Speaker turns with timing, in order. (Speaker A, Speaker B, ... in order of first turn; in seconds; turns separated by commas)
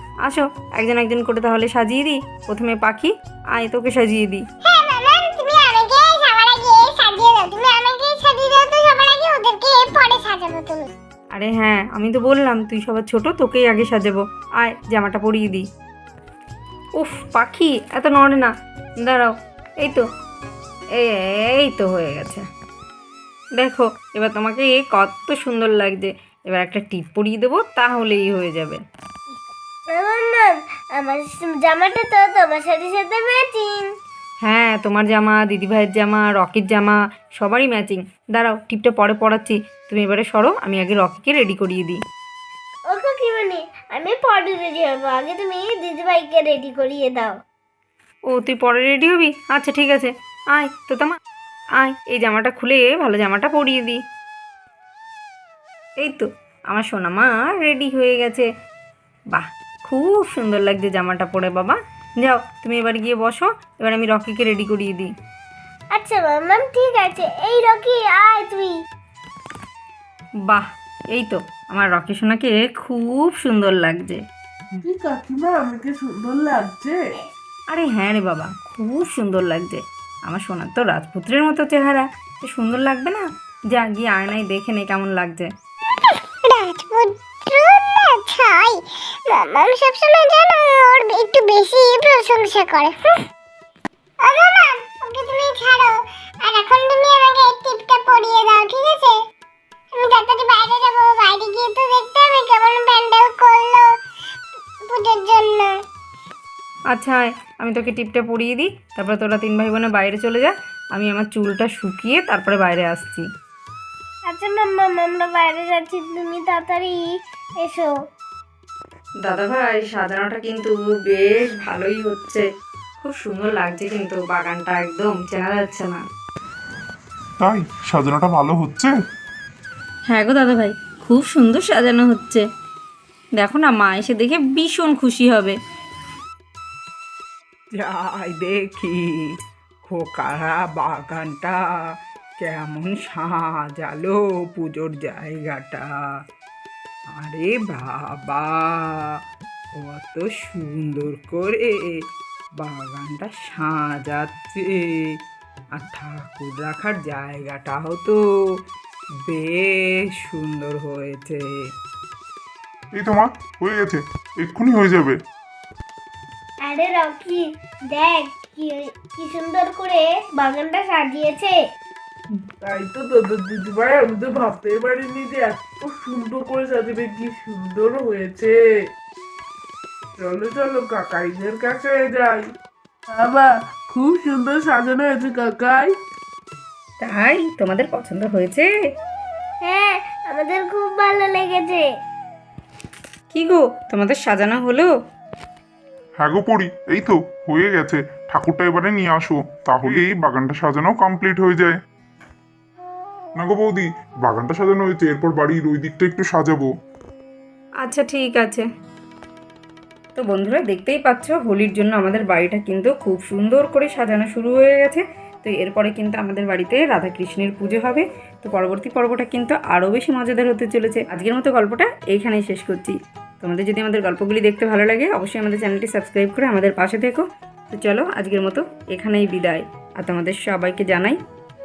Speaker A: 0.2-4.4, Speaker B: 4.6-10.9, Speaker A: 11.3-15.7, Speaker A: 17.0-18.5, Speaker A: 19.0-20.0, Speaker A: 20.9-22.4, Speaker A: 23.6-28.8, Speaker C: 29.9-33.9, Speaker A: 34.4-42.0, Speaker C: 42.9-47.3, Speaker A: 48.3-51.1, Speaker A: 51.8-54.0, Speaker A: 56.0-58.5, Speaker A: 59.3-65.1, Speaker C: 65.9-68.7, Speaker A: 70.5-74.2, Speaker D: 74.8-77.0, Speaker A: 77.7-85.5, Speaker B: 86.0-93.0, Speaker B: 94.2-99.2, Speaker B: 99.9-103.9, Speaker B: 104.8-105.8, Speaker A: 106.9-113.2, Speaker C: 114.3-117.0, Speaker C: 117.6-117.9, Speaker A: 119.2-122.5, Speaker A: 123.0-126.0, Speaker E: 127.4-128.9, Speaker A: 130.1-132.4, Speaker A: 133.4-135.6, Speaker F: 137.8-139.0, Speaker F: 139.8-141.6, Speaker F: 142.4-145.9, Speaker F: 147.2-148.8, Speaker F: 149.8-151.8, Speaker F: 152.6-154.8, Speaker F: 155.8-158.2, Speaker F: 159.2-161.5, Speaker E: 162.9-165.2, Speaker C: 166.7-171.6, Speaker D: 172.6-178.6, Speaker D: 180.2-182.4, Speaker D: 183.1-185.9, Speaker A: 187.0-188.7, Speaker C: 189.6-191.8, Speaker A: 193.3-194.9, Speaker E: 196.2-201.8, Speaker E: 203.4-206.7, Speaker A: 207.8-208.7, Speaker A: 210.2-231.2